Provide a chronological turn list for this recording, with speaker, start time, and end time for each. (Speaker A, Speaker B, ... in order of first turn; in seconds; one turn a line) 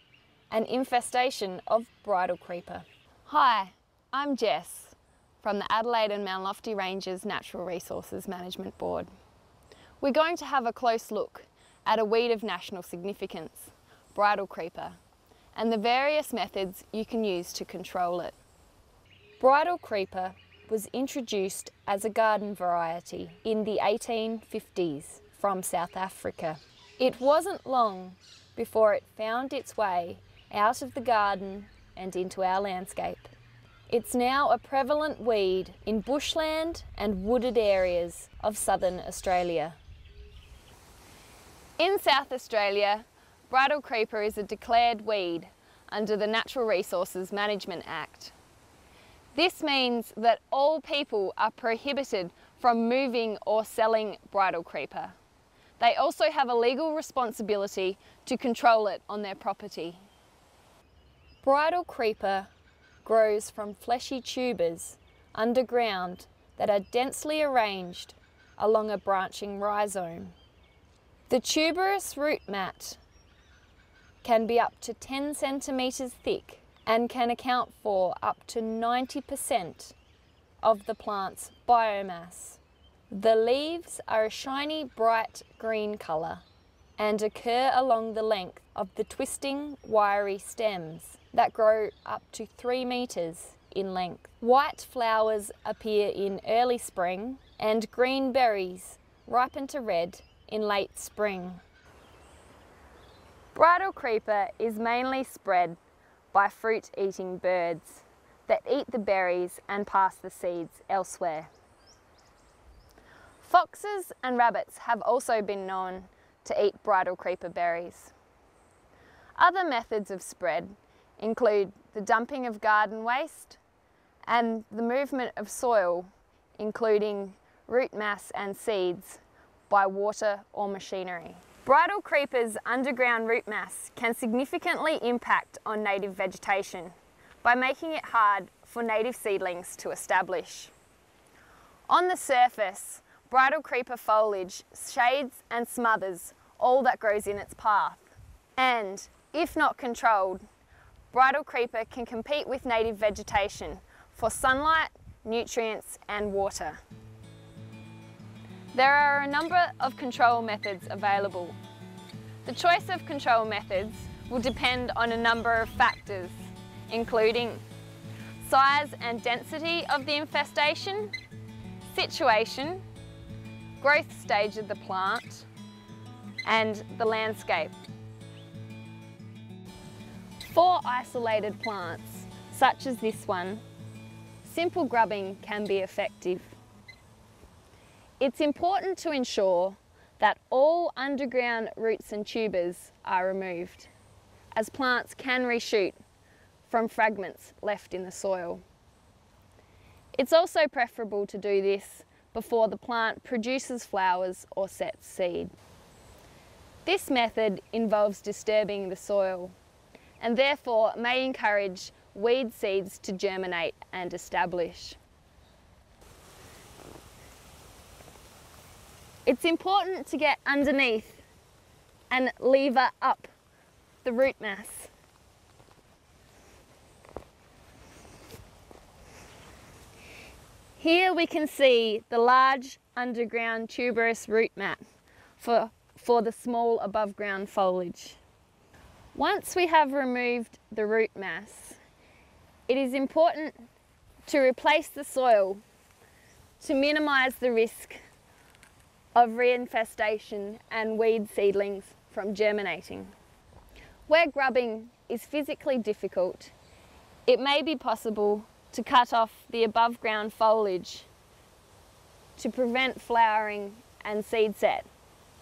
Speaker A: 0.5-9.1
Speaker A: 10.0-15.0
Speaker A: 15.5-18.4
Speaker A: 19.4-33.3
Speaker A: 33.9-39.8
Speaker A: 41.8-48.3
Speaker A: 49.3-55.2
Speaker A: 55.8-60.0
Speaker A: 61.4-62.5
Speaker A: 63.0-70.3
Speaker A: 71.3-73.0
Speaker A: 74.2-80.0
Speaker A: 80.6-86.4
Speaker A: 87.0-101.6
Speaker A: 103.5-105.8
Speaker A: 106.3-111.5
Speaker A: 113.4-118.1
Speaker A: 119.3-123.6
Speaker A: 124.2-140.7
Speaker A: 141.9-150.4
Speaker A: 151.1-156.8
Speaker A: 158.7-161.6
Speaker A: 162.4-166.3
Speaker A: 166.9-167.6
Speaker A: 168.4-171.1
Speaker A: 171.9-172.8
Speaker A: 173.8-175.5
Speaker A: 176.4-177.8
Speaker A: 180.4-183.6
Speaker A: 184.4-186.6
Speaker A: 188.2-193.9
Speaker A: 194.5-196.0
Speaker A: 196.7-198.6
Speaker A: 200.1-205.5
Speaker A: 206.8-209.5
Speaker A: 210.2-215.0
Speaker A: 219.2-221.2
Speaker A: 222.1-223.3
Speaker A: 224.0-224.9
Speaker A: 230.8-234.8
Speaker A: 235.4-238.2
Speaker A: 239.1-241.8
Speaker A: 242.7-243.6
Speaker A: 244.2-245.6
Speaker A: 246.6-248.0
Speaker A: 249.1-253.1
Speaker A: 254.1-256.5
Speaker A: 257.2-261.1
Speaker A: 262.4-264.9